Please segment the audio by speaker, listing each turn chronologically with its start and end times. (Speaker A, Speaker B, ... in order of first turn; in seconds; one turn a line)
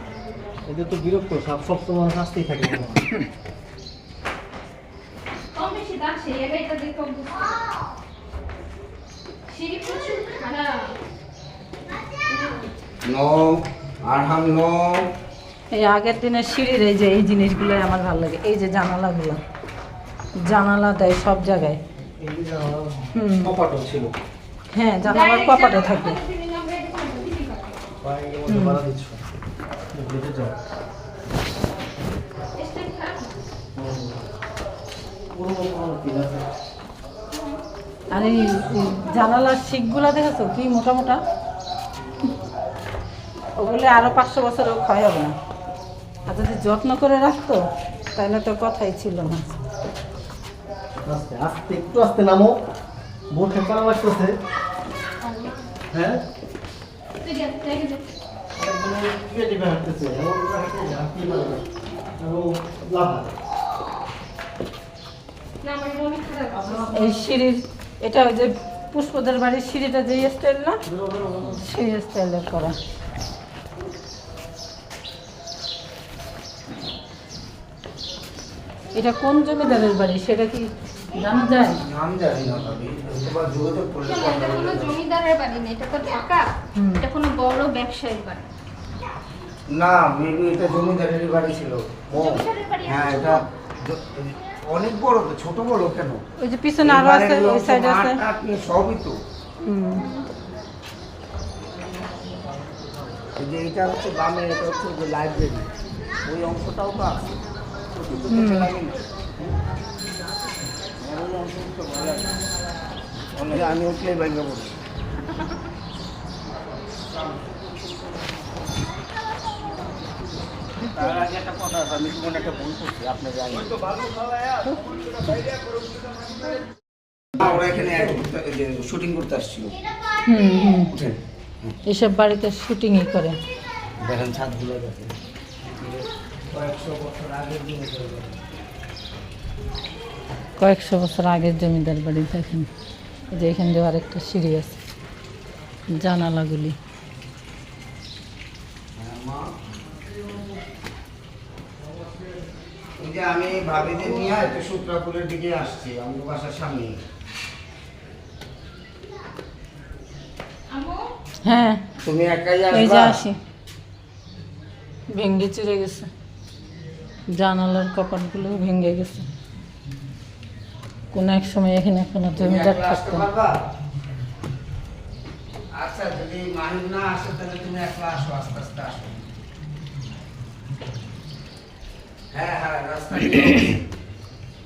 Speaker A: 0.6-3.2
Speaker B: 5.5-7.7
Speaker B: 9.5-11.0
Speaker B: 12.3-12.7
Speaker C: 13.0-15.1
Speaker D: 15.7-19.4
Speaker D: 20.4-21.8
Speaker A: 22.2-24.1
Speaker D: 23.1-23.5
Speaker D: 24.7-26.2
Speaker B: 25.0-27.9
Speaker A: 28.0-29.2
Speaker D: 28.5-28.8
Speaker A: 29.9-30.5
Speaker B: 32.5-33.4
Speaker A: 33.8-34.2
Speaker A: 35.3-36.4
Speaker B: 37.3-37.6
Speaker D: 38.1-41.2
Speaker D: 43.6-45.3
Speaker D: 46.3-47.6
Speaker D: 48.1-49.6
Speaker A: 51.0-52.5
Speaker A: 53.3-54.3
Speaker B: 55.2-55.7
Speaker A: 55.9-56.2
Speaker B: 57.2-58.0
Speaker A: 58.5-61.7
Speaker A: 62.2-63.3
Speaker B: 65.6-67.2
Speaker D: 66.9-70.8
Speaker A: 70.8-71.6
Speaker D: 71.5-72.8
Speaker D: 78.9-81.8
Speaker C: 81.6-84.9
Speaker B: 84.0-88.5
Speaker D: 86.7-87.0
Speaker C: 89.7-96.2
Speaker B: 92.1-93.5
Speaker D: 96.4-98.2
Speaker C: 96.8-99.2
Speaker D: 99.6-100.0
Speaker B: 99.9-100.3
Speaker C: 103.4-105.7
Speaker C: 106.2-109.0
Speaker D: 108.3-108.7
Speaker C: 111.0-112.4
Speaker C: 113.2-114.8
Speaker C: 117.0-117.5
Speaker C: 120.8-126.5
Speaker C: 127.3-129.8
Speaker D: 130.2-130.9
Speaker C: 130.9-131.8
Speaker D: 131.8-133.4
Speaker C: 134.0-135.1
Speaker C: 135.7-138.3
Speaker D: 140.6-142.7
Speaker D: 143.3-144.8
Speaker D: 145.9-146.8
Speaker C: 149.0-149.5
Speaker C: 153.0-157.0
Speaker B: 160.7-161.1
Speaker D: 161.4-161.8
Speaker C: 162.0-163.2
Speaker D: 162.7-163.4
Speaker D: 165.1-166.1
Speaker D: 167.3-169.2
Speaker D: 171.1-173.2
Speaker C: 172.3-173.6
Speaker C: 175.7-179.2
Speaker C: 182.3-183.8